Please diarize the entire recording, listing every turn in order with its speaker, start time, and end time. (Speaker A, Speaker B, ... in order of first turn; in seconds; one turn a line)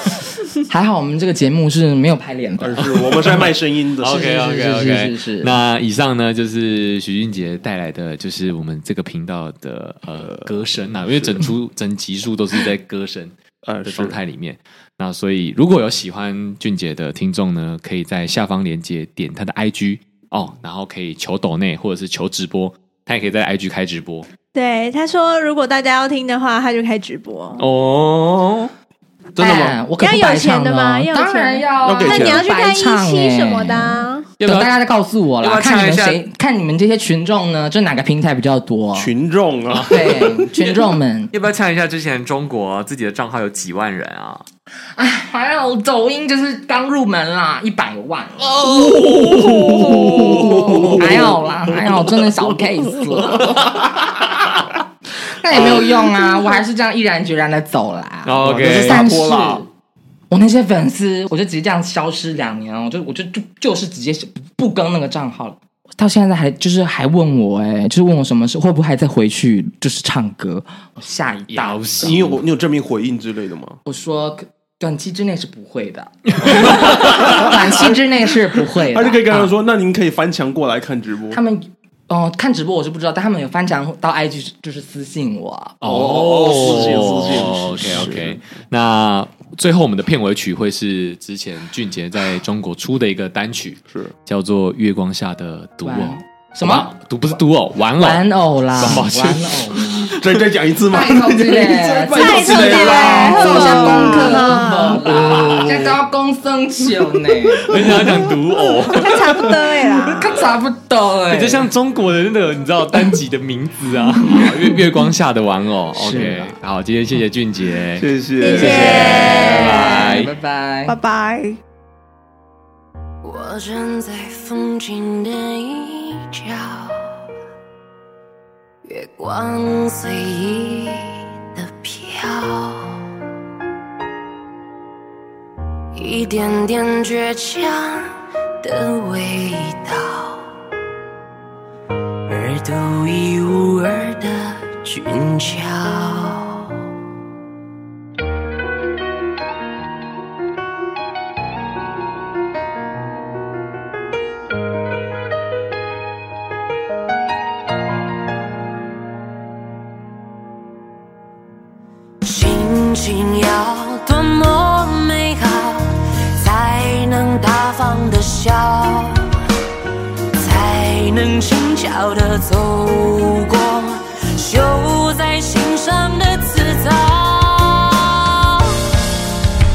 Speaker A: 0.7-2.9
Speaker B: 2.6-4.3
Speaker C: 2.8-13.3
Speaker A: 4.0-5.6
Speaker B: 10.2-10.5
Speaker B: 13.6-14.2
Speaker C: 13.8-24.3
Speaker D: 24.5-27.7
Speaker C: 27.6-28.7
Speaker B: 29.4-29.8
Speaker A: 29.4-39.1
Speaker D: 30.0-34.3
Speaker B: 31.8-32.5
Speaker C: 34.4-34.7
Speaker C: 35.4-36.2
Speaker B: 38.9-40.5
Speaker C: 39.7-40.8
Speaker A: 39.9-41.3
Speaker C: 41.3-44.4
Speaker A: 45.0-53.7
Speaker C: 48.5-51.2
Speaker B: 48.9-54.0
Speaker A: 55.3-59.6
Speaker B: 55.5-55.9
Speaker C: 58.2-59.2
Speaker B: 58.4-59.6
Speaker A: 60.3-71.8
Speaker C: 71.5-72.4
Speaker B: 72.0-73.8
Speaker A: 73.8-79.5
Speaker C: 76.4-77.3
Speaker B: 76.6-77.9
Speaker B: 78.6-81.4
Speaker A: 81.3-88.2
Speaker C: 85.8-100.1
Speaker B: 85.8-88.4
Speaker A: 95.8-97.3
Speaker A: 98.0-100.2
Speaker B: 100.2-104.7
Speaker A: 100.8-108.0
Speaker D: 102.1-105.2
Speaker C: 103.5-104.0
Speaker C: 105.1-106.0
Speaker C: 107.7-109.4
Speaker B: 107.7-108.2
Speaker D: 108.8-110.4
Speaker A: 109.9-111.6
Speaker C: 111.3-120.3
Speaker A: 114.3-114.8
Speaker A: 115.9-116.5
Speaker B: 118.0-119.3
Speaker D: 118.4-120.2
Speaker A: 118.6-121.0
Speaker D: 120.9-121.6
Speaker E: 123.2-127.1
Speaker E: 128.8-133.1
Speaker E: 135.9-140.5
Speaker E: 142.3-146.8
Speaker E: 162.2-169.2
Speaker E: 170.4-178.8